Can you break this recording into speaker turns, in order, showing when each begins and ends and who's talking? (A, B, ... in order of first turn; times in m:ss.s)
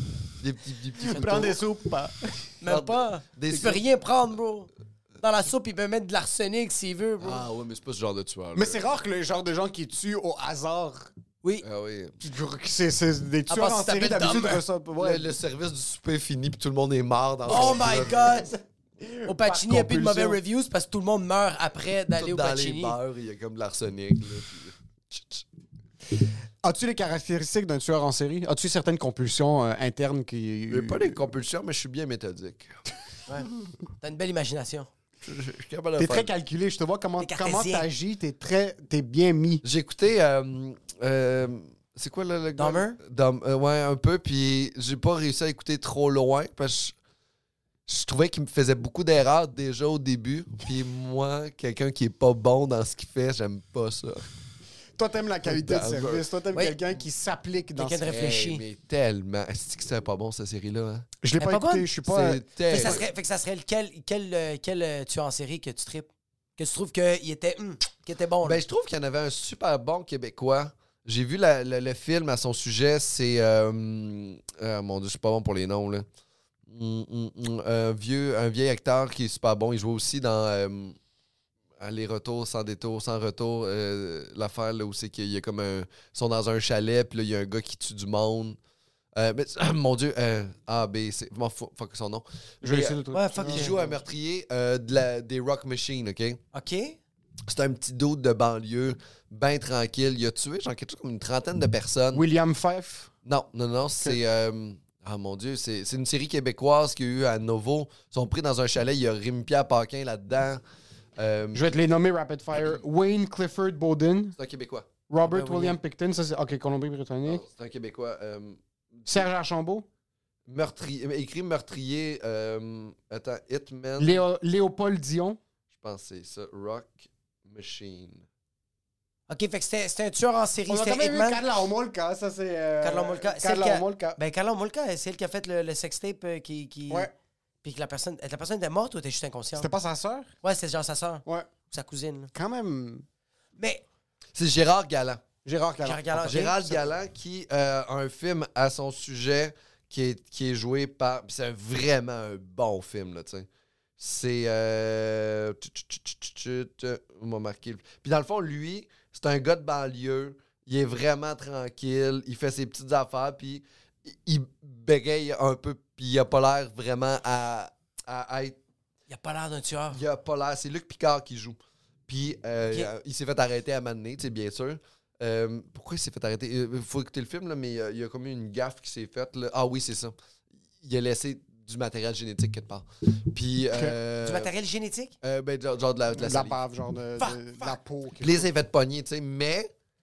0:00.4-0:01.6 A
0:01.0-0:02.3 B
0:02.6-0:04.7 C
0:02.6-0:03.8 A
0:05.2-0:07.4 C
0:07.2-0:08.9 A
0:08.5-0:11.1 B
0:11.6-0:12.2 A
0:12.2-0:15.3 B
0:13.5-0:14.6 C
0:15.0-0:18.3 A
0:17.5-0:18.5 C
0:17.5-0:20.4 B
0:19.2-0:23.0 C
0:22.2-0:25.4 A
0:26.6-0:31.2 B
0:30.7-0:32.7 A
0:34.0-0:34.9 C
0:35.2-0:36.3 A
0:36.0-0:39.6 B
0:37.2-0:37.9 C
0:39.6-0:46.9 A
0:42.6-0:43.0 C
0:47.9-0:54.3 A
0:55.0-0:58.1 B
0:55.4-0:56.2 A
0:57.8-0:58.6 C
0:58.0-1:01.1 A
1:01.2-1:03.0 B
1:01.4-1:01.9 C
1:02.0-1:03.0 A
1:02.7-1:08.6 C
1:08.4-1:16.0 A
1:16.7-1:21.0 A
1:21.8-1:28.6 A
1:29.2-1:36.4 A
1:32.6-1:33.9 B
1:33.1-1:33.8 C
1:36.5-1:37.0 C
1:37.5-1:42.2 A
1:42.1-1:43.1 B
1:43.2-1:50.6 A
1:51.2-1:51.7 A
1:51.5-1:54.4 B
1:54.4-1:54.9 A
1:55.1-1:57.4 B
1:55.2-1:55.8 C
1:57.2-1:59.2 A
1:59.1-1:59.8 B
2:00.5-2:04.2 A
2:04.0-2:05.4 B
2:05.7-2:08.2 A
2:09.3-2:11.4 C
2:10.7-2:14.2 B
2:12.8-2:17.1 C
2:17.6-2:19.7 C
2:19.5-2:20.3 B
2:20.4-2:22.3 C
2:22.3-2:23.0 B
2:23.6-2:23.8 C
2:24.3-2:25.2 A
2:25.4-2:26.8 B
2:25.8-2:26.5 C
2:26.2-2:33.5 A
2:34.0-2:48.6 A
2:49.1-2:50.0 C
2:49.9-2:51.6 A
2:52.1-3:00.1 A
3:00.8-3:04.5 A
3:04.2-3:05.1 C
3:05.2-3:06.6 A
3:06.1-3:08.5 B
3:07.2-3:07.7 C
3:08.2-3:09.7 A